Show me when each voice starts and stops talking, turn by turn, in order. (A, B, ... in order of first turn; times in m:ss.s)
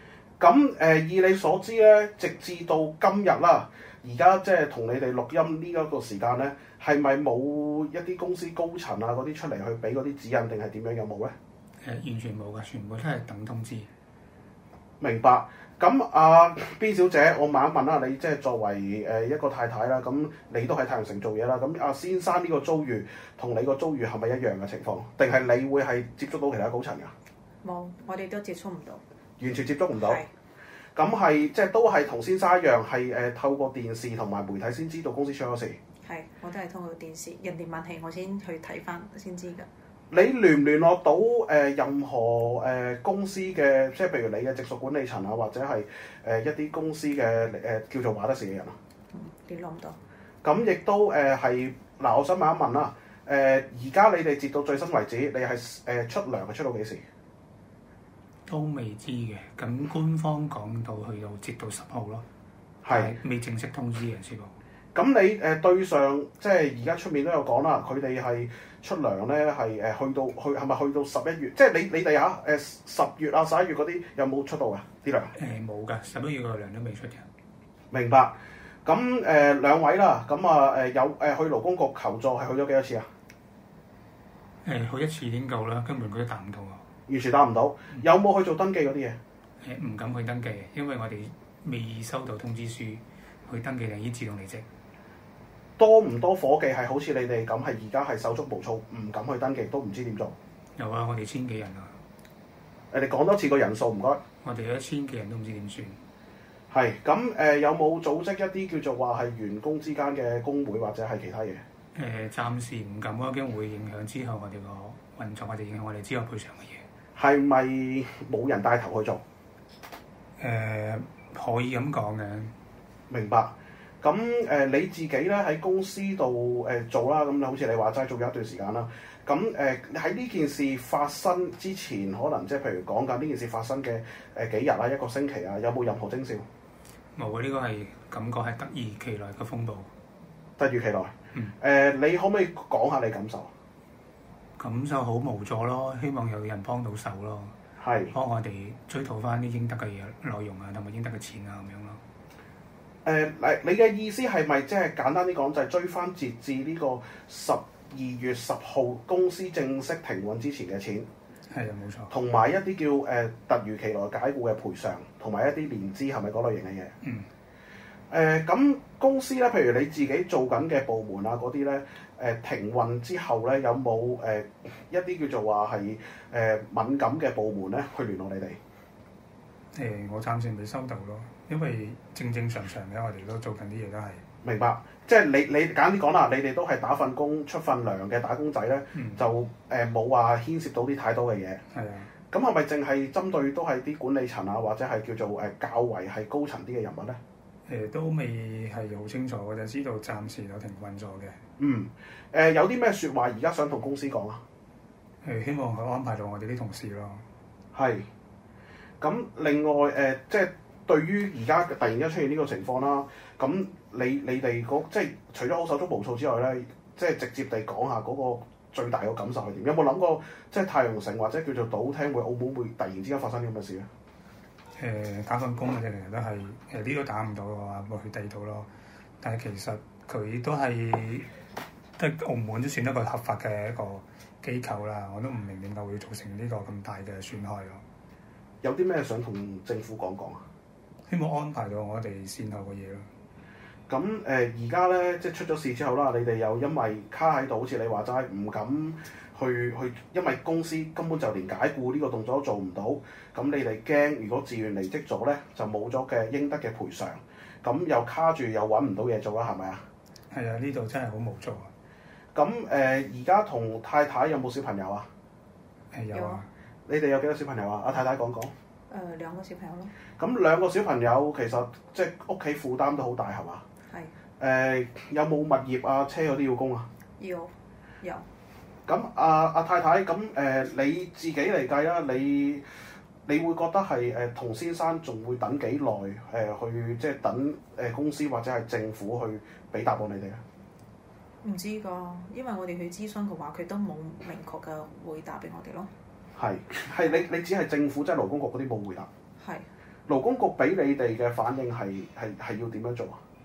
0:00.4-0:11.3 A
0:11.8-0:13.9 B
0:15.0-0:27.1 A
0:27.6-0:29.0 C
0:29.4-0:30.2 A
0:31.0-0:35.8 A
0:36.0-0:39.7 C
0:40.1-0:48.8 A
0:49.2-0:49.9 C
0:50.4-0:57.0 A
0:58.4-1:02.2 B
1:02.8-1:03.1 A
1:02.9-1:04.6 B
1:04.9-1:15.3 A
1:15.3-1:17.2 B
1:17.9-1:23.1 A
1:24.6-1:26.8 B
1:27.1-1:29.2 A
1:29.6-1:34.6 B
1:35.8-1:40.3 A
1:40.8-1:42.0 B
1:42.9-1:44.2 A
1:44.4-1:46.0 B
1:46.7-1:51.6 A
1:51.9-1:56.8 B
1:57.2-1:59.2 A
2:00.4-2:02.5 B
2:03.1-2:16.4 A
2:17.1-2:19.9 B
2:20.6-2:23.5 A
2:24.6-2:27.5 B
2:27.8-2:28.1 A
2:28.1-2:32.0 B
2:33.0-2:41.1 A
2:41.5-2:42.1 B
2:42.1-2:46.9 A
2:47.0-2:47.3 B
2:48.1-2:58.6 A
2:59.7-3:04.2 B
3:04.4-3:11.6 A
3:08.9-3:09.2 B
3:11.7-3:12.1 B
3:12.3-3:17.2 A
3:17.7-3:21.4 B
3:21.6-3:24.4 A
3:25.2-3:27.2 B
3:27.7-3:28.1 A
3:29.0-3:43.9 A
3:44.7-3:48.7 B
3:49.2-3:51.3 B
3:52.0-3:57.8 B
3:58.6-4:00.4 A
4:01.0-4:03.1 B
4:03.9-4:19.8 A
4:20.3-4:21.7 B
4:22.3-4:25.1 A
4:25.9-4:26.5 B
4:26.9-4:28.5 A
4:29.2-4:29.9 C
4:30.2-4:33.6 A
4:34.4-4:36.9 A
4:37.2-4:37.5 C
4:38.9-4:42.6 A
4:43.3-4:50.4 A
4:51.4-4:55.9 C
4:56.4-4:59.1 A
4:59.4-4:59.7 C
5:00.1-5:03.2 A